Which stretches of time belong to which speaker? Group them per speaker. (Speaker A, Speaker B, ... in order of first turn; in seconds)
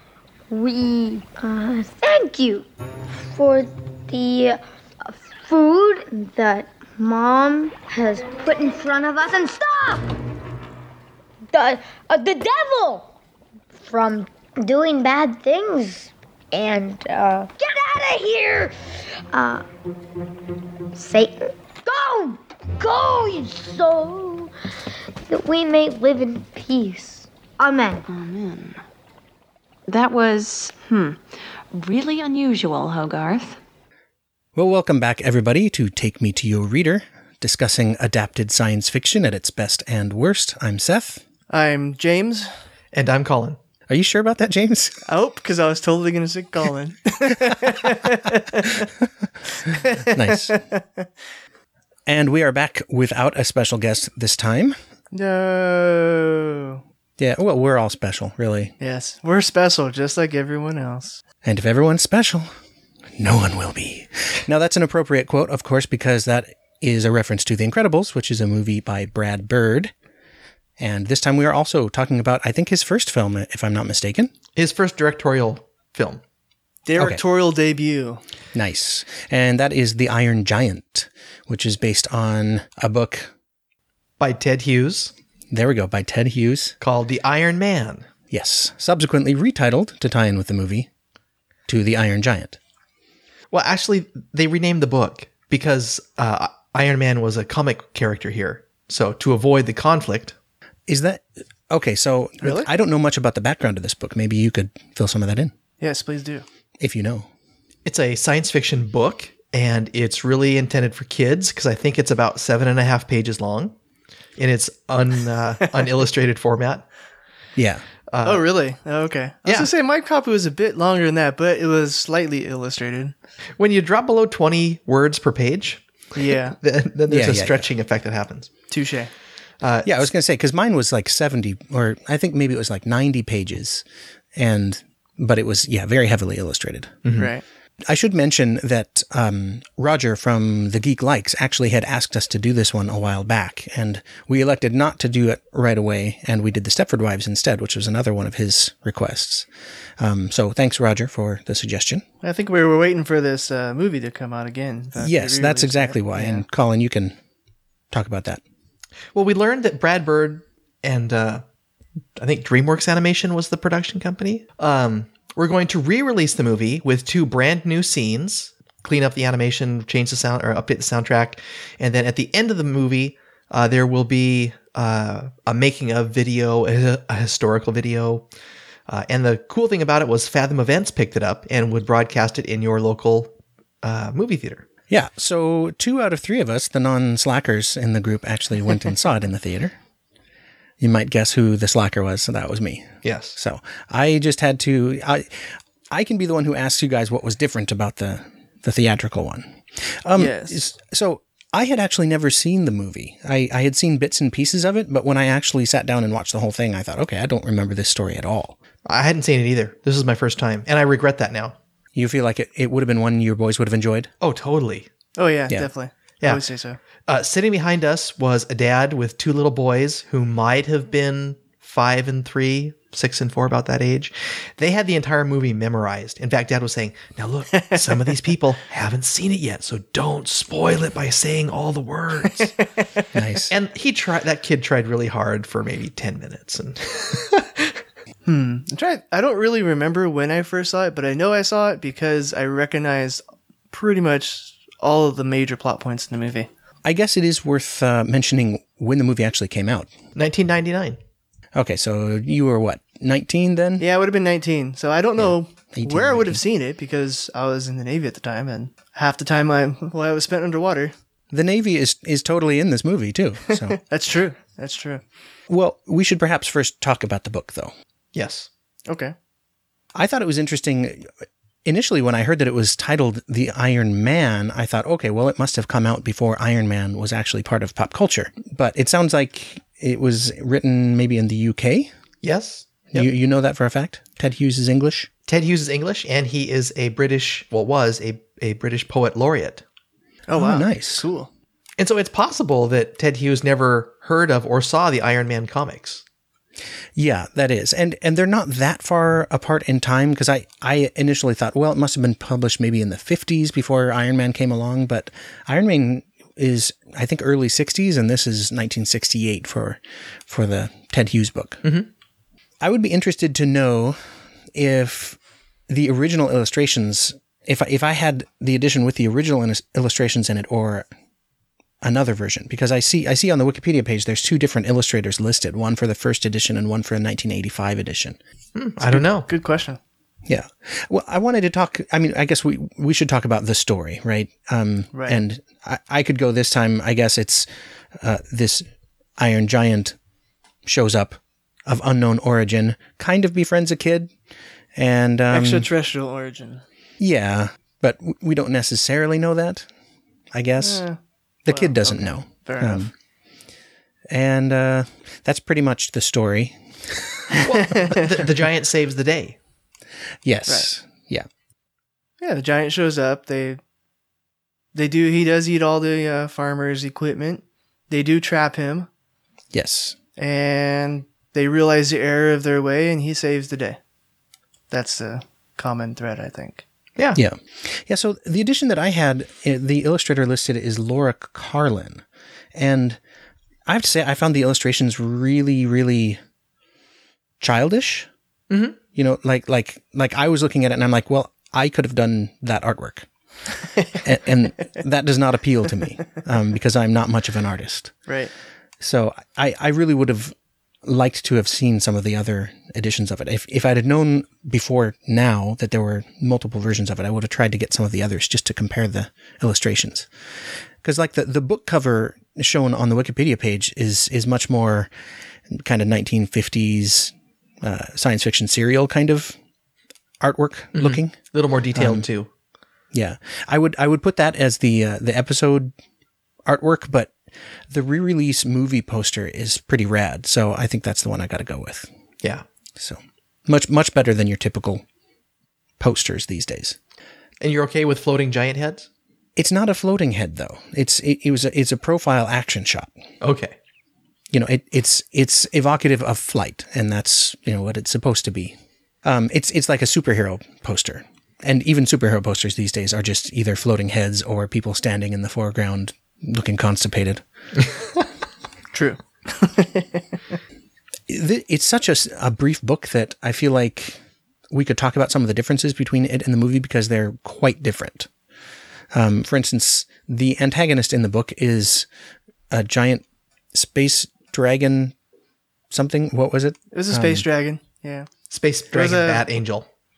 Speaker A: 0.5-2.6, 3.2-10.1, 11.5-13.1, 13.8-18.7, 19.3-19.6, 20.9-24.5, 25.3-28.1
Speaker B: 28.1-28.8, 29.9-31.2, 31.7-33.6
Speaker C: 34.5-41.2, 43.9-45.0, 50.0-50.5, 52.0-54.8, 57.2-58.7, 61.4-62.5, 63.2-69.9, 70.8-74.3, 78.5-83.3, 85.5-86.8, 88.3-90.9, 91.7-92.6, 100.9-105.5, 106.8-107.3, 117.6-117.8, 127.1-127.7, 129.8-133.8, 134.4-137.0, 137.8-149.5, 150.0-152.0, 155.0-157.2, 157.9-158.4, 184.9-189.7, 190.8-208.6, 211.9-214.1, 233.1-233.5, 246.8-249.9, 251.5-253.8, 255.2-256.4, 261.3-263.8, 265.5-267.7, 269.9-271.1, 271.6-281.9, 282.9-285.1, 290.4-291.0, 296.9-311.6, 312.6-314.0, 314.5-315.2, 315.7-320.9, 321.8-328.2, 330.2-338.6, 339.2-339.9, 340.6-344.1, 344.7-345.6, 347.0-349.7, 350.3-350.8, 351.4-352.9, 354.1-357.4, 360.2-361.2, 369.5-369.9, 377.1-382.0, 382.5-383.0, 383.6-386.2, 387.4-388.1, 388.9-393.1, 394.0-397.9, 398.8-410.1, 410.8-414.9, 415.5-419.4, 420.2-421.1, 421.7-422.1, 422.9-425.7, 426.4-427.1, 427.7-431.9, 432.8-434.8, 435.8-436.8, 439.4-442.9, 444.3-457.2, 461.1-464.0, 464.5-468.1, 468.9-471.9, 472.5-474.9, 475.7-477.2
Speaker D: 41.5-42.5, 45.0-48.9, 49.6-51.1, 55.1-56.8, 58.8-61.2, 76.8-78.2, 102.4-102.7, 105.8-106.4, 118.2-123.1, 126.1-126.5, 128.7-129.1, 137.2-137.4, 152.2-156.4, 200.2-200.6, 215.2-216.8, 227.5-228.2, 238.2-246.5, 253.8-260.9, 263.5-265.0, 268.9-269.1, 290.3-291.3, 328.8-329.8, 334.9-335.2, 345.3-346.6, 350.6-352.9, 357.7-358.1, 362.2-363.6, 364.7-368.9, 370.2-373.8, 374.7-376.6, 398.1-398.3, 458.7-460.0, 476.7-478.1, 478.7-479.2
Speaker E: 42.9-43.6, 74.5-76.2, 84.2-85.1, 86.8-88.1, 93.5-100.3, 107.8-113.7, 114.4-116.8, 118.1-118.4, 123.6-125.8, 126.5-128.5, 129.6-130.1, 137.0-137.3, 159.1-161.4, 162.2-178.3, 178.9-184.6, 193.0-193.3, 208.8-211.6, 214.2-214.9, 217.1-232.6, 233.5-237.5, 250.1-251.0, 268.1-268.5, 282.2-283.1, 285.3-289.6, 291.8-296.0, 328.5-329.3, 357.3-359.4, 388.5-388.8, 420.7-422.3, 437.4-438.9, 443.2-443.5, 478.3-479.6